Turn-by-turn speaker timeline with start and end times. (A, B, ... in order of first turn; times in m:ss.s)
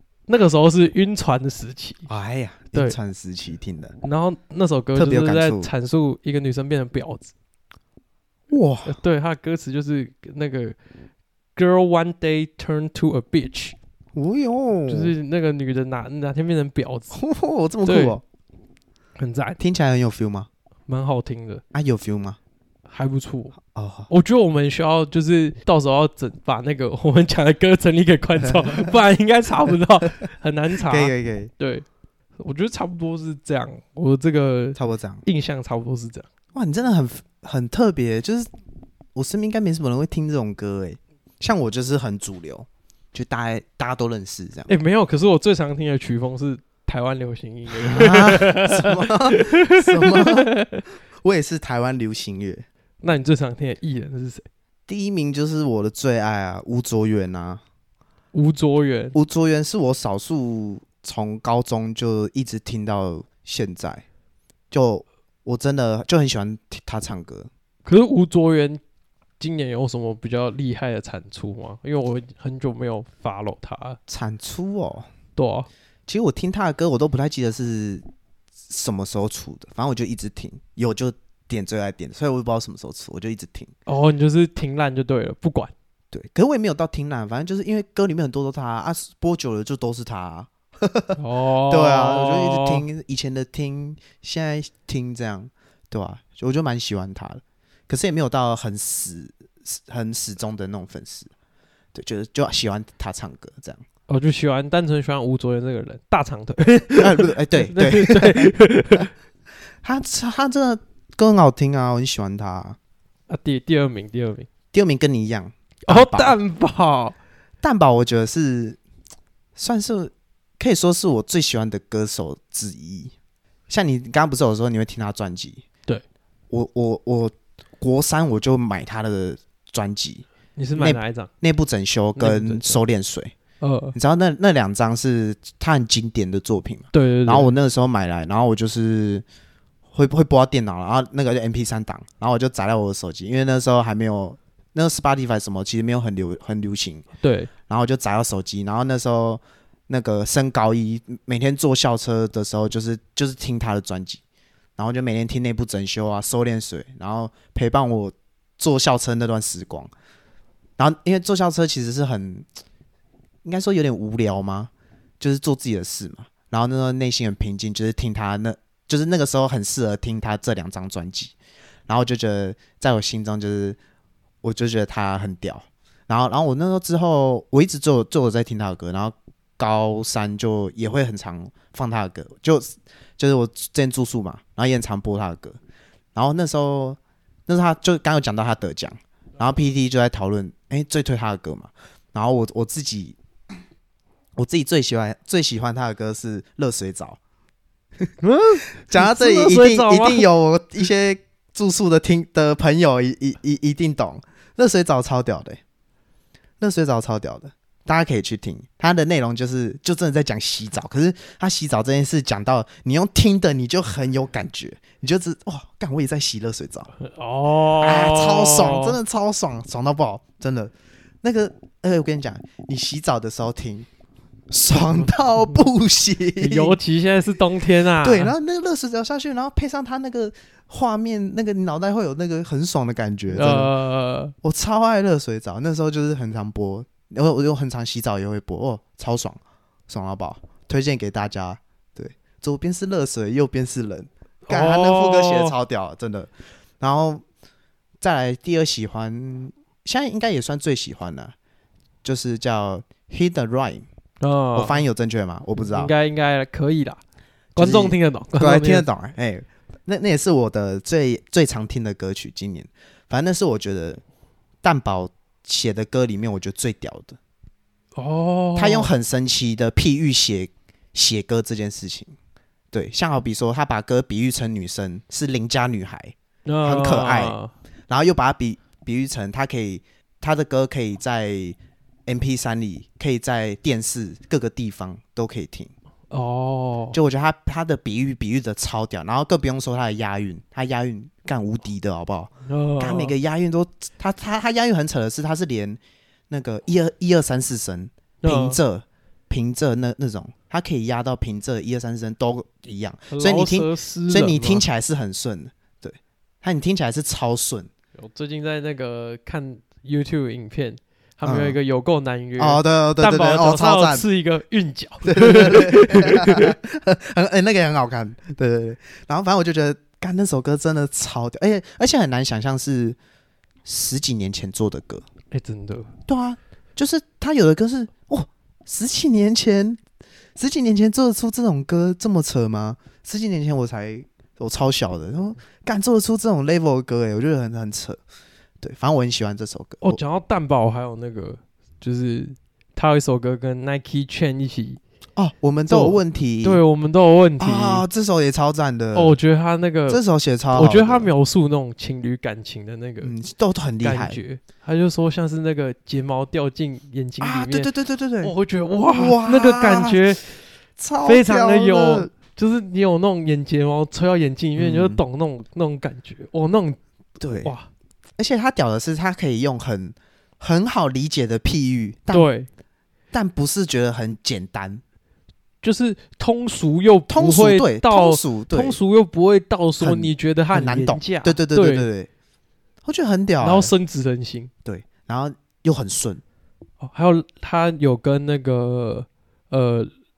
0:00.3-0:02.1 A
0:02.1-0:04.0 B
0:04.0-0:07.3 A
0:05.0-0:05.7 B
0:08.5-0:09.0 B
0:08.9-0:10.8 A
0:11.6-0:13.8 A
0:14.2-0:15.1 B
0:14.9-0:17.2 A
0:17.1-0:18.2 B
0:17.8-0:18.2 A
0:19.2-0:19.6 A
0:19.6-0:20.5 B
0:20.9-0:21.6 A
0:21.7-0:22.4 B
0:22.9-0:23.6 A
0:23.6-0:24.1 B
0:24.1-0:31.9 A
0:28.4-0:29.0 B
0:30.9-0:31.5 B
0:32.4-0:36.3 A
0:34.8-0:35.2 B
0:36.5-0:38.5 B
0:39.2-0:44.7 B
0:44.7-0:50.8 A
0:47.7-0:50.5 B
0:51.2-0:52.7 B
0:53.0-0:54.5 A
0:54.9-0:57.6 B
0:58.3-0:59.2 A
0:59.1-1:04.0 B
1:04.7-1:07.5 B
1:07.8-1:08.8 A
1:09.4-1:14.0 A
1:14.1-1:15.1 B
1:15.4-1:15.7 A
1:16.1-1:18.0 B
1:18.7-1:23.7 B
1:23.9-1:25.7 A
1:26.1-1:31.2 B
1:31.2-1:32.8 A
1:31.7-1:41.3 B
1:41.9-1:43.8 B
1:44.1-1:49.1 A
1:47.0-1:48.5 B
1:49.8-1:52.8 B
1:53.3-1:54.5 A
1:54.7-1:56.4 B
1:55.9-1:57.2 A
1:57.6-1:58.8 B
1:59.6-2:03.1 B
2:03.7-2:05.6 B
2:06.5-2:13.3 B
2:10.6-2:11.3 A
2:12.2-2:12.8 A
2:13.6-2:14.0 A
2:13.9-2:19.2 B
2:16.9-2:17.5 A
2:19.9-2:27.0 B
2:27.2-2:27.5 A
2:27.7-2:34.2 B
2:34.8-2:39.9 B
2:40.8-2:42.5 B
2:43.4-2:51.3 B
2:51.9-2:53.8 B
2:54.4-3:05.6 B
3:06.2-3:13.2 B
3:14.4-3:17.2 B
3:18.2-3:20.3 A
3:18.7-3:25.6 B
3:26.6-3:36.9 B
3:37.0-3:39.0 A
3:37.8-3:43.9 B
3:44.5-3:46.8 B
3:46.4-3:48.3 A
3:48.0-3:53.7 B
3:53.3-3:54.3 A
3:54.4-4:07.2 B
4:04.5-4:05.5 A
4:08.0-4:11.4 B
4:12.0-4:13.8 B
4:14.2-4:14.8 A
4:14.6-4:15.9 B
4:15.6-4:17.0 A
4:17.6-4:18.9 A
4:17.6-4:24.0 B
4:24.6-4:27.2 B
4:28.0-4:28.9 A
4:28.6-4:32.2 B
4:32.7-4:37.4 B
4:36.5-4:37.5 A
4:37.9-4:45.7 B
4:46.1-4:47.0 A
4:46.9-5:07.7 B
4:52.5-4:53.1 A
4:58.2-4:58.6 A
5:03.1-5:04.6 A
5:08.0-5:16.6 A
5:11.2-5:11.6 B
5:12.4-5:14.1 B
5:15.0-5:23.0 B
5:23.6-5:25.0 B
5:25.3-5:25.9 A
5:26.1-5:29.8 B
5:30.4-5:38.0 B
5:38.6-5:40.0 B
5:39.8-5:44.8 A
5:45.2-5:46.6 B
5:45.7-5:47.8 A
5:47.4-5:49.2 B
5:48.9-5:50.0 A
5:49.9-5:51.1 B
5:50.5-5:53.1 A
5:53.0-5:54.2 B
5:53.8-5:57.7 A
5:57.2-5:58.3 B
5:58.2-6:00.3 A
5:58.9-6:00.1 B
6:00.8-6:02.1 B
6:01.0-6:06.8 A
6:04.6-6:05.0 B
6:07.2-6:07.5 B
6:07.3-6:07.7 A
6:08.2-6:12.3 B
6:12.1-6:12.5 A
6:13.1-6:14.8 B
6:15.6-6:21.9 A
6:17.1-6:18.8 B
6:19.8-6:22.1 B
6:22.8-6:23.7 B
6:23.4-6:24.5 A
6:24.6-6:26.2 B
6:26.8-6:29.9 A